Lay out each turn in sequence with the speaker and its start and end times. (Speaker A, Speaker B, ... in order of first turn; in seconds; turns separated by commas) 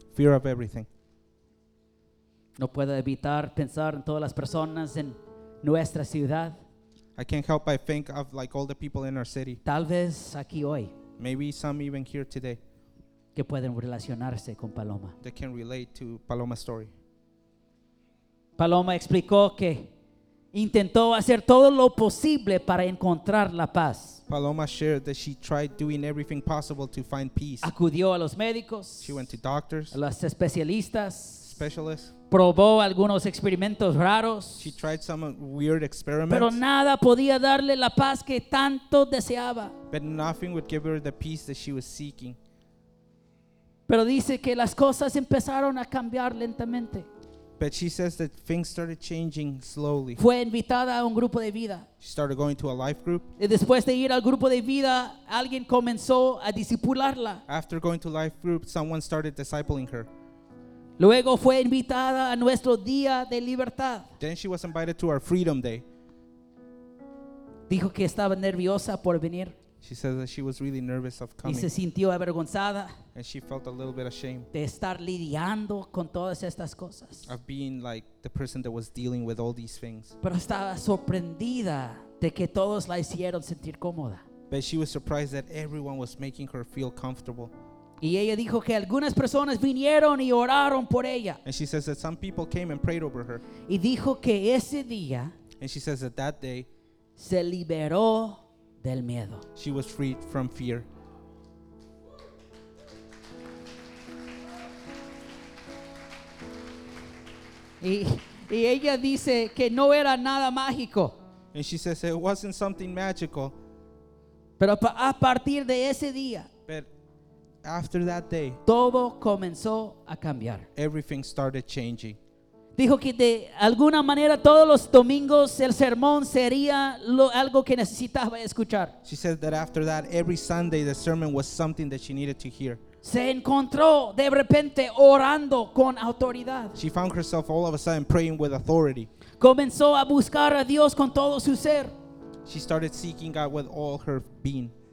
Speaker A: 0.1-0.9, Speaker B: 2.6-6.6, Speaker A: 7.2-9.6, Speaker B: 9.6-10.9, Speaker A: 11.2-12.6, Speaker B: 13.3-15.1, Speaker A: 15.2-16.9, Speaker B: 18.6-19.9, Speaker B: 20.5-24.2, Speaker A: 24.3-27.7, Speaker B: 27.6-29.2, Speaker A: 29.0-30.0, Speaker B: 29.9-31.5, Speaker A: 31.4-32.1, Speaker B: 32.3-34.7, Speaker A: 34.6-36.6, Speaker B: 36.3-39.7, Speaker A: 39.9-42.4, Speaker B: 43.9-47.1, Speaker A: 47.6-50.2, Speaker B: 50.2-51.9, Speaker A: 52.0-53.3, Speaker B: 53.4-57.4, Speaker A: 57.5-60.1, Speaker B: 61.0-64.1, Speaker A: 64.2-65.8, Speaker B: 67.7-69.5, Speaker A: 69.8-71.7, Speaker B: 71.4-72.9, Speaker A: 73.1-74.5, Speaker B: 74.5-77.3, Speaker A: 77.2-80.2, Speaker B: 80.2-84.2, Speaker A: 84.5-87.5, Speaker B: 88.0-91.4, Speaker A: 91.4-93.4, Speaker B: 93.7-95.3, Speaker A: 95.6-96.7, Speaker B: 97.2-99.4, Speaker A: 99.5-100.9, Speaker B: 107.8-111.2, Speaker A: 111.5-113.5, Speaker B: 114.6-116.5, Speaker A: 117.6-118.6, Speaker B: 118.7-120.7, Speaker A: 120.8-122.2, Speaker B: 122.8-128.9, Speaker A: 129.0-132.8, Speaker B: 133.0-136.8, Speaker A: 136.8-139.1, Speaker B: 139.4-141.9, Speaker A: 142.4-144.7